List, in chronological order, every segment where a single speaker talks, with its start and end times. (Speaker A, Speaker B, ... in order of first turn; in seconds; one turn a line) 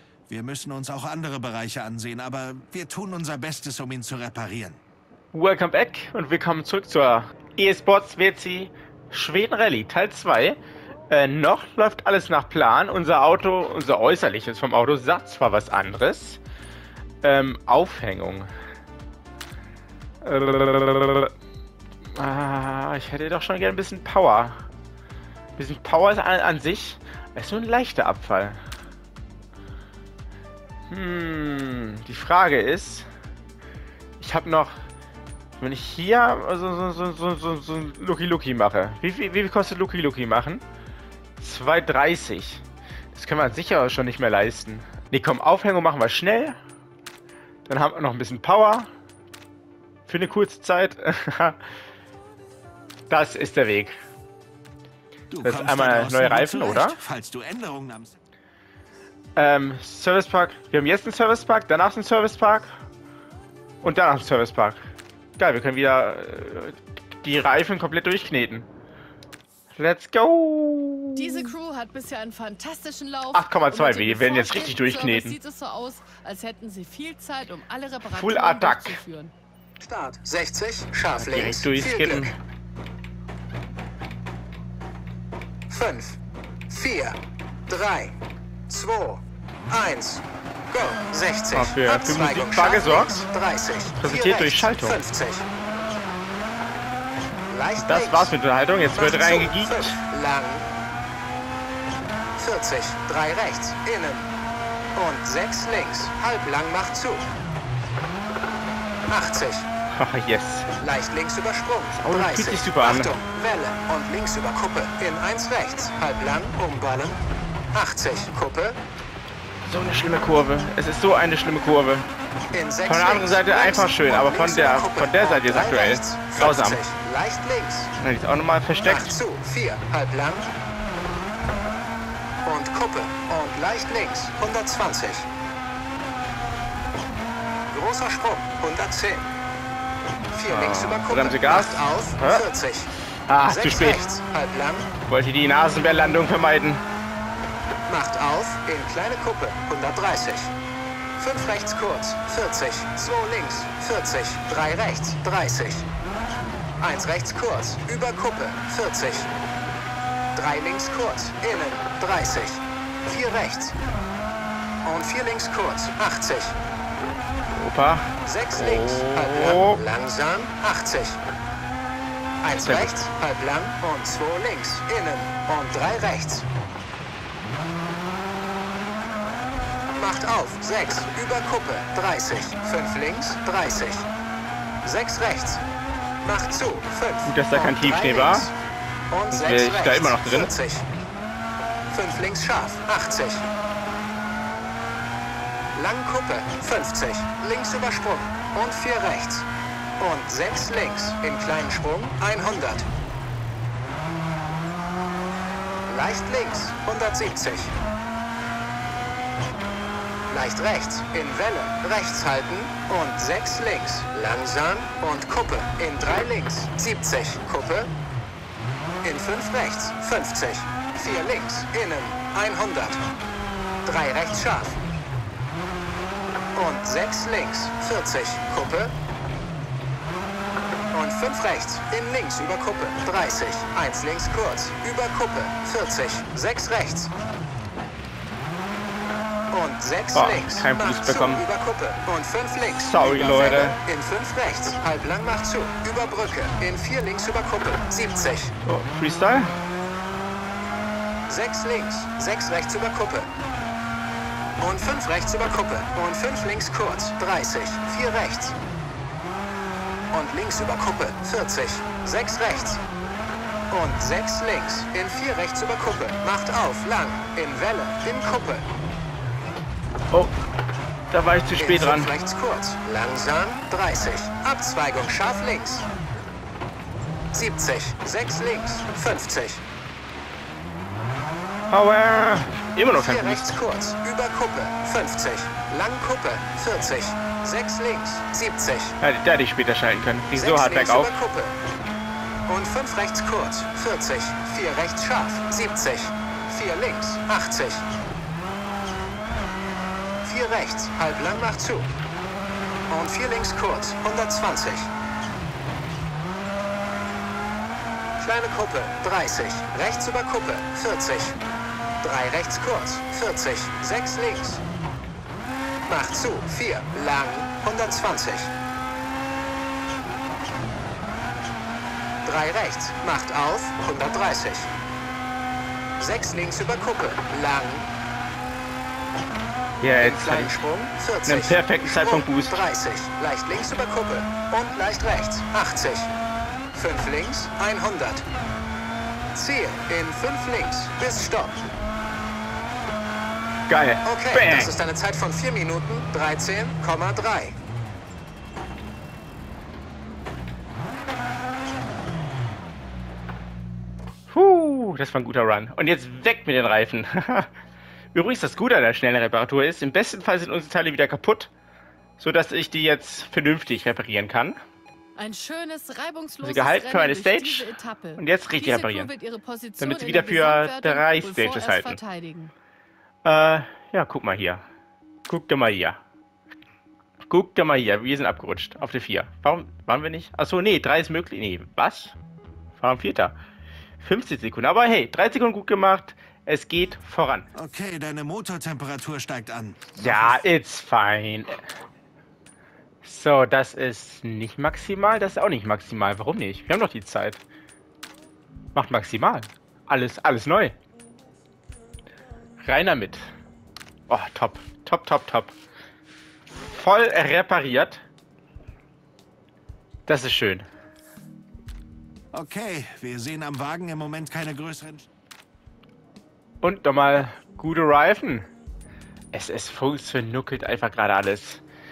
Speaker A: 0.3-4.8
Speaker B: 5.3-10.6
Speaker B: 11.1-16.4
Speaker B: 17.2-18.5
Speaker B: 20.2-21.3
Speaker B: 22.2-24.6
Speaker B: 25.6-28.6
Speaker B: 30.9-33.1
Speaker B: 34.2-34.8
Speaker B: 35.6-40.6
Speaker B: 41.4-42.6
Speaker B: 43.1-46.6
Speaker B: 47.7-48.9
Speaker B: 50.1-51.6
Speaker B: 53.1-54.0
Speaker A: 55.3-58.1
Speaker B: 55.4-57.0
Speaker B: 59.4-62.7
Speaker B: 63.8-64.8
Speaker B: 65.4-68.7
Speaker B: 69.8-71.5
Speaker C: 71.2-79.3
Speaker B: 73.3-75.4
Speaker B: 78.1-79.0
Speaker D: 79.8-82.3
Speaker B: 81.2-82.4
Speaker D: 85.7-88.2
Speaker D: 88.7-95.5
Speaker B: 91.5-93.3
Speaker B: 94.0-95.0
Speaker D: 97.5-98.3
Speaker B: 97.8-100.0
Speaker D: 98.9-100.7
Speaker D: 102.4-104.3
Speaker D: 105.0-107.3
Speaker D: 109.1-109.7
Speaker B: 109.9-110.7
Speaker D: 110.8-117.2
Speaker B: 112.0-113.2
Speaker D: 117.7-118.8
Speaker B: 119.7-122.1
Speaker D: 122.5-127.9
Speaker B: 122.9-126.8
Speaker B: 128.0-129.2
Speaker D: 128.8-130.5
Speaker D: 132.4-135.3
Speaker D: 137.7-139.2
Speaker D: 140.3-142.9
Speaker B: 140.5-142.5
Speaker B: 143.3-144.0
Speaker D: 143.5-144.9
Speaker B: 145.1-146.8
Speaker D: 147.9-150.5
Speaker D: 151.2-155.9
Speaker D: 156.8-159.3
Speaker D: 160.3-163.8
Speaker D: 164.8-166.6
Speaker B: 167.5-169.8
Speaker D: 168.2-171.2
Speaker D: 172.4-176.5
Speaker B: 172.6-173.0
Speaker D: 180.0-184.1
Speaker D: 184.8-185.6
Speaker D: 186.2-188.5
Speaker B: 187.3-188.5
Speaker D: 189.1-190.9
Speaker B: 189.3-190.5
Speaker D: 191.9-193.5
Speaker D: 195.8-199.5
Speaker D: 200.0-202.9
Speaker D: 205.9-207.7
Speaker D: 210.3-217.9
Speaker D: 219.0-223.0
Speaker D: 223.8-224.8
Speaker D: 226.5-228.9
Speaker D: 230.9-237.1
Speaker D: 239.5-248.5
Speaker B: 240.1-241.4
Speaker B: 242.8-243.8
Speaker B: 248.7-249.5
Speaker D: 251.3-253.3
Speaker D: 254.6-258.6
Speaker D: 260.1-262.8
Speaker D: 263.7-268.7
Speaker B: 271.1-272.1
Speaker D: 271.6-275.9
Speaker D: 277.3-279.6
Speaker B: 281.7-283.6
Speaker D: 282.9-289.0
Speaker B: 289.0-291.1
Speaker D: 290.4-291.6
Speaker D: 292.5-297.9
Speaker D: 300.2-301.9
Speaker D: 302.9-304.9
Speaker D: 308.2-311.4
Speaker D: 312.0-314.6
Speaker D: 315.9-318.5
Speaker D: 322.2-324.7
Speaker D: 326.0-327.9
Speaker B: 329.8-330.6
Speaker D: 330.0-336.1
Speaker B: 331.3-332.6
Speaker D: 336.7-338.2
Speaker D: 339.3-341.6
Speaker B: 343.7-344.7
Speaker D: 344.0-347.6
Speaker B: 354.3-357.5
Speaker B: 358.1-361.5
Speaker B: 362.2-364.6
Speaker C: 365.2-372.5
Speaker B: 366.4-369.1
Speaker B: 369.8-372.0
Speaker B: 373.2-374.6
Speaker B: 375.3-376.0
Speaker B: 377.3-382.1
Speaker B: 382.8-383.4
Speaker B: 384.0-387.5
Speaker A: 387.6-390.4
Speaker B: 390.0-391.6
Speaker B: 393.0-397.4
Speaker B: 398.8-400.8
Speaker B: 402.6-403.3
Speaker B: 404.1-405.5
Speaker B: 406.5-408.0
Speaker B: 410.1-410.7
Speaker A: 412.3-415.1
Speaker B: 416.6-418.5
Speaker B: 419.3-421.6